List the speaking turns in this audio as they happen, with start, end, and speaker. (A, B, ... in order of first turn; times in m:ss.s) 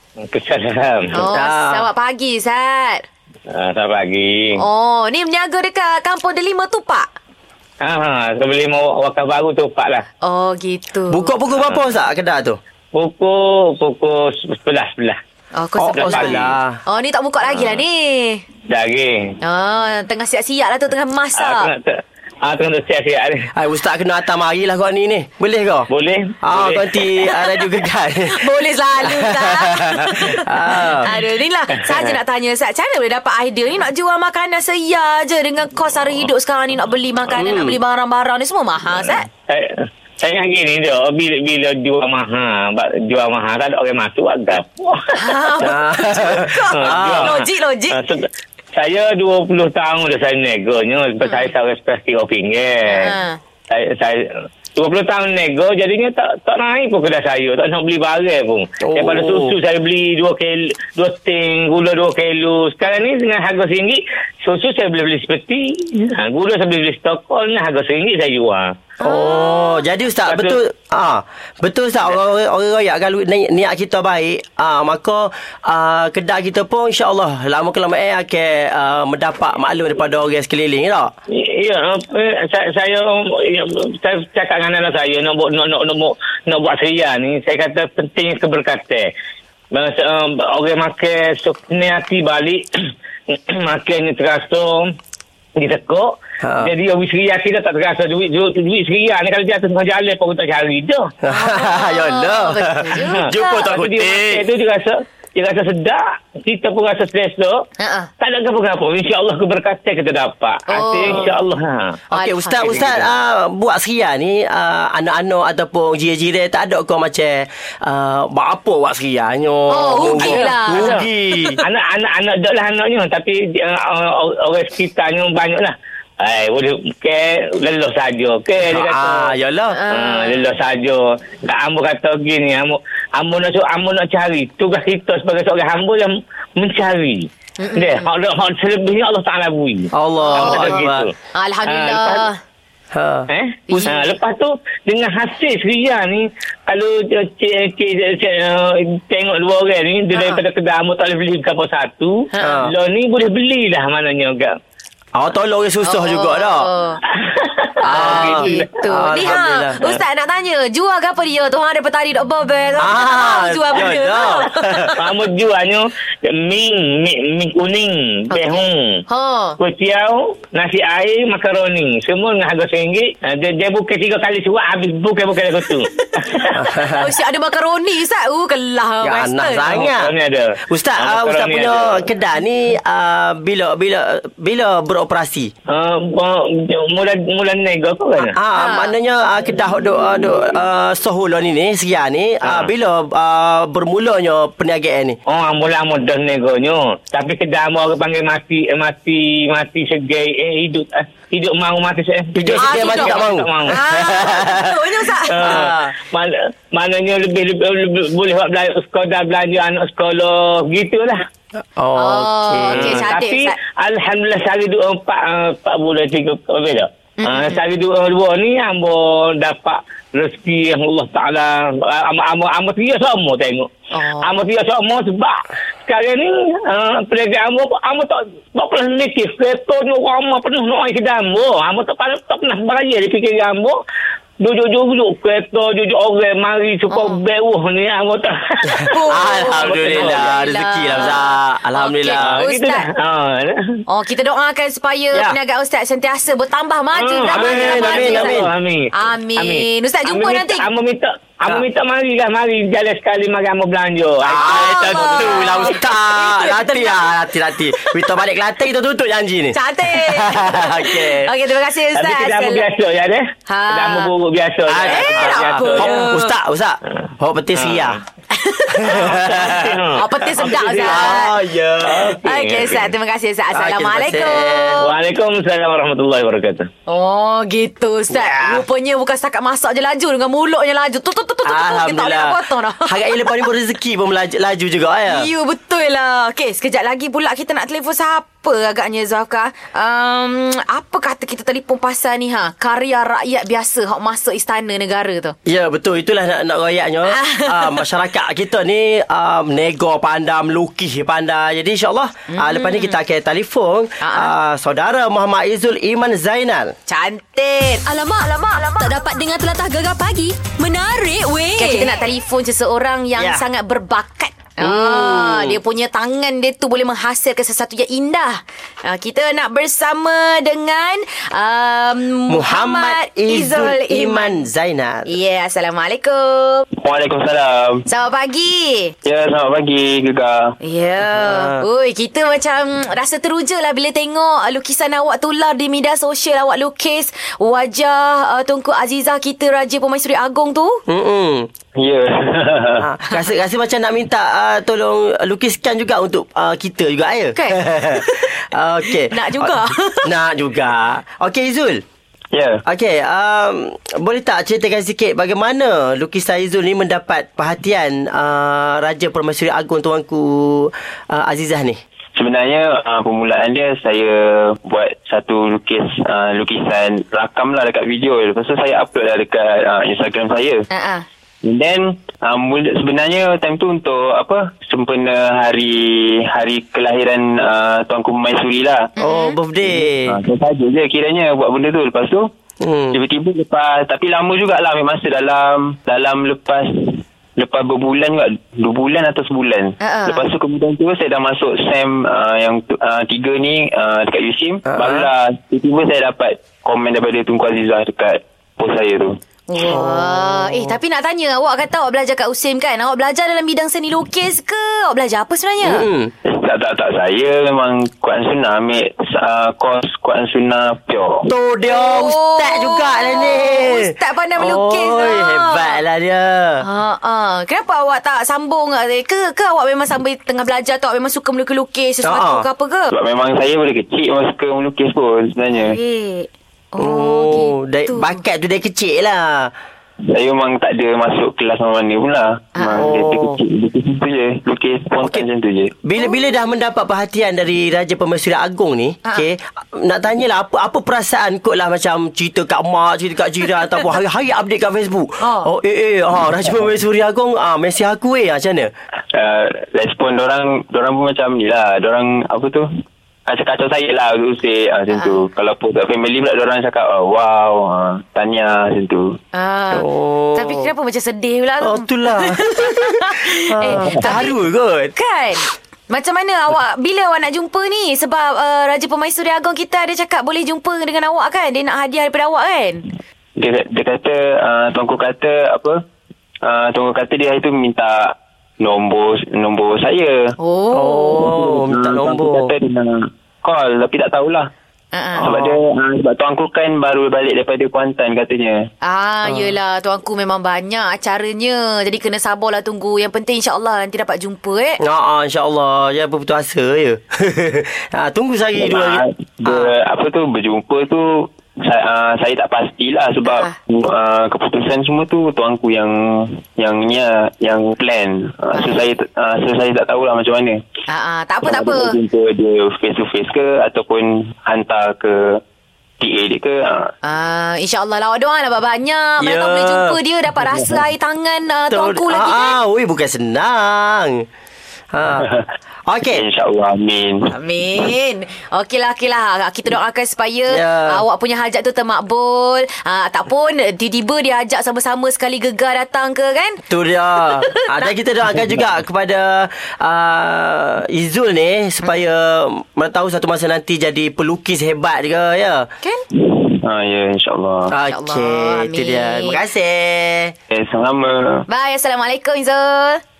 0:00.2-0:01.2 A
0:01.1-0:03.0 B
0:01.2-0:01.9 C
0:03.5-0:04.6 A
0:04.6-0:07.1 B
0:07.8-0:10.0 A
0:10.2-0:11.3 B
0:11.1-0:12.6 C
0:12.9-0:15.2 A
0:15.5-0:18.4 B
0:15.8-0:16.8 C
0:16.0-0:16.5 A
0:18.7-0:19.3 A
0:19.4-0:21.7 B
0:21.4-0:23.5 A
0:23.5-0:25.9 C
0:25.9-0:26.9 A
0:26.4-0:31.1 C
0:27.3-0:27.7 B
0:28.3-0:39.2 B
0:37.3-0:37.8 C
0:39.5-0:45.2 A
0:45.1-0:48.0 B
0:45.6-0:47.4 C
0:46.7-0:53.1 A
0:51.2-0:51.5 B
0:52.8-0:53.4 B
0:53.7-1:08.8 A
0:58.8-0:59.5 C
1:09.0-1:09.8 B
1:09.0-1:21.1 C
1:10.3-1:10.6 A
1:21.3-1:29.1 A
1:29.7-1:32.7 A
1:33.3-1:34.9 A
1:35.6-1:41.1 A
1:36.4-1:36.7 C
1:41.2-1:44.4 C
1:41.3-1:43.6 B
1:43.2-1:47.6 A
1:47.8-1:48.1 B
1:48.2-1:51.9 A
1:50.7-1:51.3 B
1:52.1-2:01.6 C
1:52.1-1:53.0 B
1:59.7-2:01.6 B
2:00.1-2:01.0 A
2:01.6-2:09.3 A
2:08.6-2:09.8 C
2:09.7-2:10.5 B
2:09.9-2:21.1 A
2:17.6-2:18.1 B
2:19.9-2:21.1 C
2:20.2-2:20.8 B
2:21.3-2:22.4 B
2:21.7-2:22.2 A
2:22.9-2:23.9 C
2:23.3-2:34.5 A
2:23.7-2:24.1 B
2:30.1-2:30.4 B
2:32.3-2:32.6 B
2:32.4-2:32.7 C
2:35.1-2:36.7 C
2:35.8-2:37.0 B
2:37.1-2:38.8 A
2:37.8-2:45.0 B
2:37.8-2:40.0 C
2:42.8-2:44.9 C
2:45.0-2:49.0 A
2:48.3-2:49.6 B
2:49.6-2:56.5 A
2:55.9-2:59.7 B
2:56.5-2:57.1 C
2:59.0-3:00.1 C
2:59.7-3:02.1 A
3:00.6-3:05.5 C
3:05.7-3:08.4 A
3:08.2-3:15.2 C
3:08.6-3:08.9 B
3:15.3-3:23.8 A
3:22.3-3:24.8 C
3:22.6-3:25.6 B
3:25.3-3:31.2 A
3:25.4-3:25.9 C
3:31.8-3:33.1 C
3:32.0-3:33.6 B
3:32.7-3:43.7 A
3:37.2-3:37.6 B
3:43.9-3:44.4 B
3:44.2-3:53.8 A
3:54.4-4:00.3 A
3:56.9-3:57.2 B
3:58.7-4:02.4 C
3:58.9-4:02.9 B
4:02.2-4:03.8 A
4:03.9-4:08.4 B
4:05.1-4:05.4 C
4:06.9-4:15.5 A
4:07.3-4:08.5 C
4:08.9-4:10.6 B
4:14.3-4:21.3 C
4:14.4-4:17.1 B
4:19.5-4:22.6 B
4:21.9-4:26.1 A
4:23.5-4:24.1 B
4:24.7-4:28.0 C
4:24.8-4:26.3 B
4:27.6-4:28.0 A
4:28.3-4:29.2 B
4:28.7-4:32.2 C
4:28.9-4:31.2 A
4:29.9-4:31.3 B
4:31.8-4:32.9 A
4:32.2-4:34.9 B
4:33.5-4:34.8 C
4:34.8-4:36.7 A
4:36.9-4:43.5 B
4:38.1-4:38.6 C
4:41.4-4:45.3 C
4:45.1-4:55.3 B
4:55.4-5:06.7 C
4:57.1-4:57.8 B
5:02.3-5:03.0 B
5:04.0-5:04.3 B
5:06.9-5:08.8 B
5:08.8-5:11.8 D
5:10.7-5:11.8 E
5:11.6-5:24.4 B
5:13.2-5:13.4 C
5:14.6-5:15.6 C
5:22.3-5:25.1 C
5:25.1-5:26.6 B
5:26.8-5:27.8 E
5:27.9-5:28.9 B
5:29.0-5:30.5 E
5:30.6-5:40.8 B
5:31.1-5:31.6 C
5:40.9-5:41.5 C
5:41.8-5:42.9 E
5:42.8-5:49.5 C
5:47.4-5:48.3 B
5:48.9-5:50.1 B
5:50.0-5:51.8 C
5:52.3-5:52.6 E
5:52.6-6:01.8 C
6:02.1-6:10.6 E
6:10.7-6:11.0 B
6:11.4-6:18.9 E
6:19.0-6:19.4 B
6:19.0-6:20.2 C
6:19.7-6:22.3 E
6:22.6-6:23.0 C
6:22.9-6:39.2 E
6:29.8-6:30.3 B
6:34.7-6:35.1 C
6:39.5-6:45.8 B
6:39.6-6:40.8 C
6:45.6-6:46.1 C
6:46.2-6:51.3 E
6:51.3-6:56.6 C
6:51.6-6:55.8 B
6:56.6-7:02.9 B
7:02.0-7:02.4 C
7:02.9-7:05.8 E
7:05.5-7:08.2 B
7:06.8-7:09.5 C
7:10.1-7:15.7 E
7:12.6-7:12.9 B
7:12.8-7:13.4 C
7:15.8-7:28.7 C
7:25.2-7:25.5 B
7:29.1-7:32.7 E
7:33.2-7:39.2 E
7:34.9-7:35.2 B
7:39.3-7:44.3 B
7:39.7-7:40.7 C
7:41.6-7:44.9 C
7:44.9-7:52.8 B
7:53.4-7:55.8 E
7:56.4-8:00.3 E
8:00.4-8:01.3 B
8:00.7-8:02.5 C
8:01.3-8:04.5 E
8:04.9-8:05.3 B
8:05.2-8:08.7 E
8:05.2-8:05.6 C
8:08.8-8:14.8 B
8:09.3-8:09.5 C
8:14.8-8:19.7 C
8:18.6-8:30.6 E
8:23.2-8:23.6 B
8:28.5-8:28.9 B
8:30.9-8:32.0 B
8:31.4-8:35.4 E
8:36.0-8:36.9 E
8:37.0-8:42.6 B
8:39.2-8:40.0 C
8:41.7-8:44.2 C
8:44.9-8:45.3 C
8:45.2-8:45.4 E
8:45.9-8:46.2 C
8:46.1-8:47.3 E
8:47.3-8:56.6 B
8:50.5-8:51.0 C
8:56.7-9:05.7 C
8:57.2-8:57.9 B
9:06.1-9:07.7 E
9:07.7-9:10.3 C
9:07.9-9:09.4 B
9:10.5-9:11.4 E
9:11.5-9:13.0 B